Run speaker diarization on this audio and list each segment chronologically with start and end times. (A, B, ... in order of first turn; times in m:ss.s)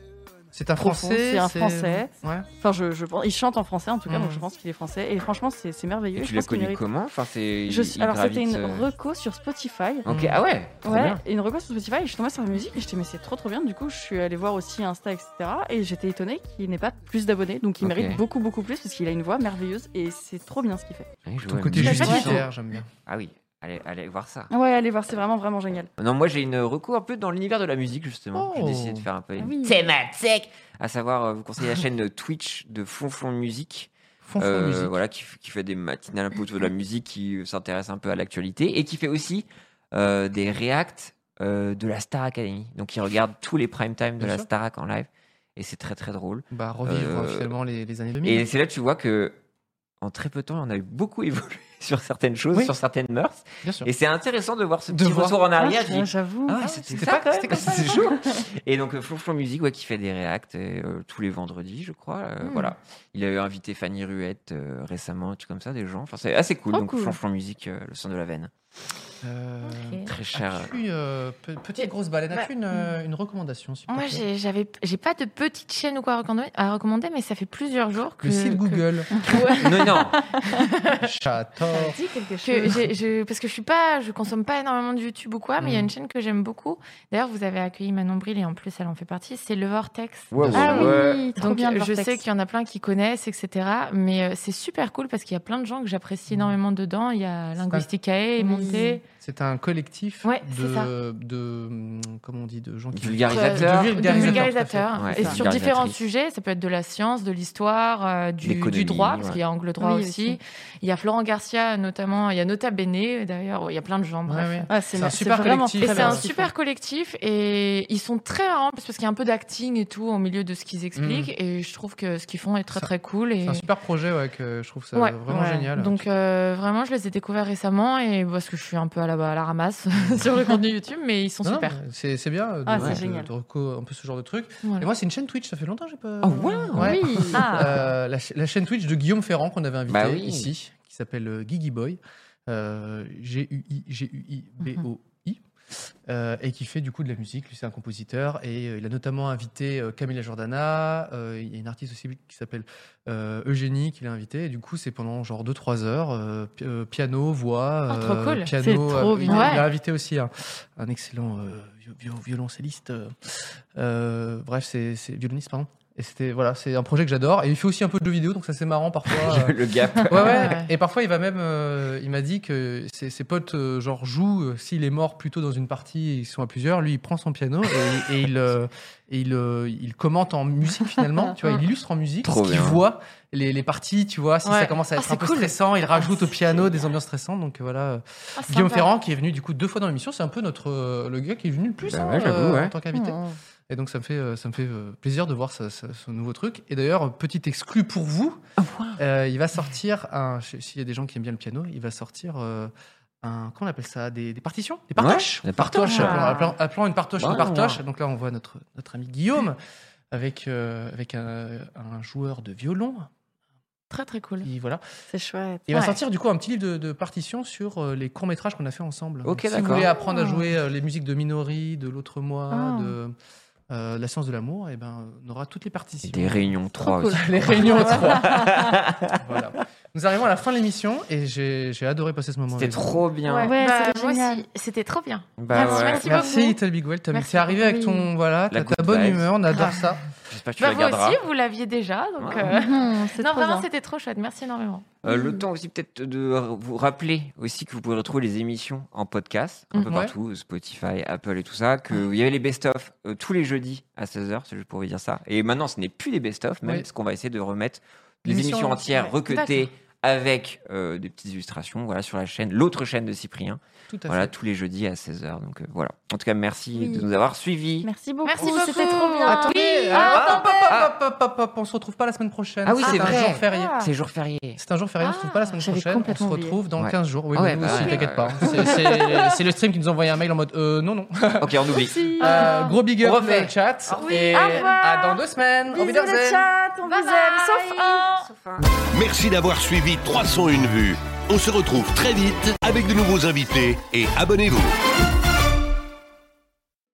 0:00.5-0:02.5 A
0:00.8-0:06.8 B
0:04.1-0:04.4 A
0:06.2-0:08.9 C
0:07.7-0:10.1 B
0:10.0-0:11.2 C
0:10.1-0:10.4 A
0:10.8-0:21.1 B
0:17.8-0:18.2 C
0:21.3-0:22.4 C
0:21.4-0:22.9 A
0:21.7-0:22.4 B
0:23.0-0:24.5 C
0:24.5-0:25.9 B
0:26.0-0:47.5 C
0:28.3-0:29.1 A
0:29.4-0:29.8 B
0:34.2-0:35.0 A
0:44.2-0:44.5 A
0:46.5-0:48.5 A
0:48.2-0:49.4 C
0:50.0-1:08.5 C
0:53.6-0:53.9 A
0:54.9-0:55.4 A
0:55.6-0:58.4 B
0:56.5-0:58.0 A
1:02.4-1:02.7 D
1:06.7-1:07.2 B
1:09.2-1:14.2 A
1:09.6-1:10.1 D
1:10.1-1:10.8 C
1:11.8-1:12.5 D
1:13.9-1:21.0 D
1:18.2-1:19.2 A
1:19.6-1:20.2 C
1:21.0-1:22.0 A
1:21.8-1:22.8 B
1:22.3-1:39.0 D
1:30.3-1:31.2 C
1:30.4-1:31.0 A
1:30.6-1:32.2 B
1:36.3-1:36.6 A
1:38.4-1:39.0 B
1:39.2-1:44.9 A
1:40.2-1:40.9 D
1:42.9-1:44.4 C
1:43.3-1:54.8 D
1:45.0-1:46.0 C
1:48.4-1:49.4 C
1:49.8-1:50.4 B
1:54.3-1:56.3 A
1:54.7-1:56.5 B
1:55.7-2:03.7 D
2:01.0-2:01.3 A
2:03.4-2:06.0 A
2:04.9-2:11.8 D
2:11.4-2:25.4 A
2:12.7-2:13.3 B
2:12.8-2:13.0 C
2:14.6-2:14.9 D
2:16.2-2:17.6 C
2:16.5-2:17.8 B
2:19.9-2:20.5 C
2:26.1-3:18.4 A
2:37.9-2:38.5 D
2:38.6-2:39.6 B
2:39.3-2:39.7 D
2:49.1-2:50.4 C
2:50.2-2:50.7 D
3:02.2-3:02.8 C
3:04.4-3:06.1 D
3:08.4-3:08.9 D
3:11.9-3:12.8 C
3:12.9-3:13.4 B
3:18.6-3:19.0 C
3:19.0-3:22.7 A
3:23.2-3:29.6 A
3:25.0-3:26.3 C
3:25.9-3:26.5 B
3:27.2-3:27.8 C
3:30.1-3:33.1 A
3:33.9-3:34.5 D
3:34.4-3:34.8 A
3:35.1-3:35.7 B
3:35.7-3:43.2 A
3:35.7-3:36.0 D
3:39.2-3:39.9 C
3:39.8-3:40.4 B
3:42.5-3:43.0 B
3:43.7-3:46.6 A
3:46.0-3:49.2 C
3:46.8-3:48.7 B
3:47.1-3:48.5 A
3:49.1-3:53.0 A
3:52.6-3:53.6 C
3:53.3-3:54.4 B
3:53.4-3:56.6 D
3:55.4-3:56.1 C
3:55.5-3:56.5 B
3:56.0-4:00.0 A
3:57.1-3:57.6 D
3:57.6-3:58.1 B
3:58.5-3:59.3 C
4:00.3-4:01.2 C
4:00.6-4:04.9 D
4:02.2-4:02.6 C
4:02.5-4:03.7 B
4:05.0-4:27.9 C
4:05.1-4:05.4 B
4:09.9-4:10.1 A
4:16.6-4:16.9 A
4:18.3-4:19.7 D
4:23.9-4:24.3 A
4:26.7-4:27.1 B
4:27.8-4:30.5 B
4:28.2-4:30.5 D
4:29.3-4:33.9 A
4:29.6-4:30.9 C
4:32.6-4:34.6 C
4:32.8-4:33.6 B
4:34.6-4:46.5 A
4:35.0-4:35.6 D
4:35.6-4:36.6 B
4:36.8-4:39.1 C
4:37.6-4:39.3 B
4:41.4-4:42.2 C
4:41.8-4:42.8 B
4:43.0-4:43.5 C
4:43.9-4:48.3 B
4:44.0-4:44.8 D
4:46.9-4:48.3 D
4:48.9-4:54.7 E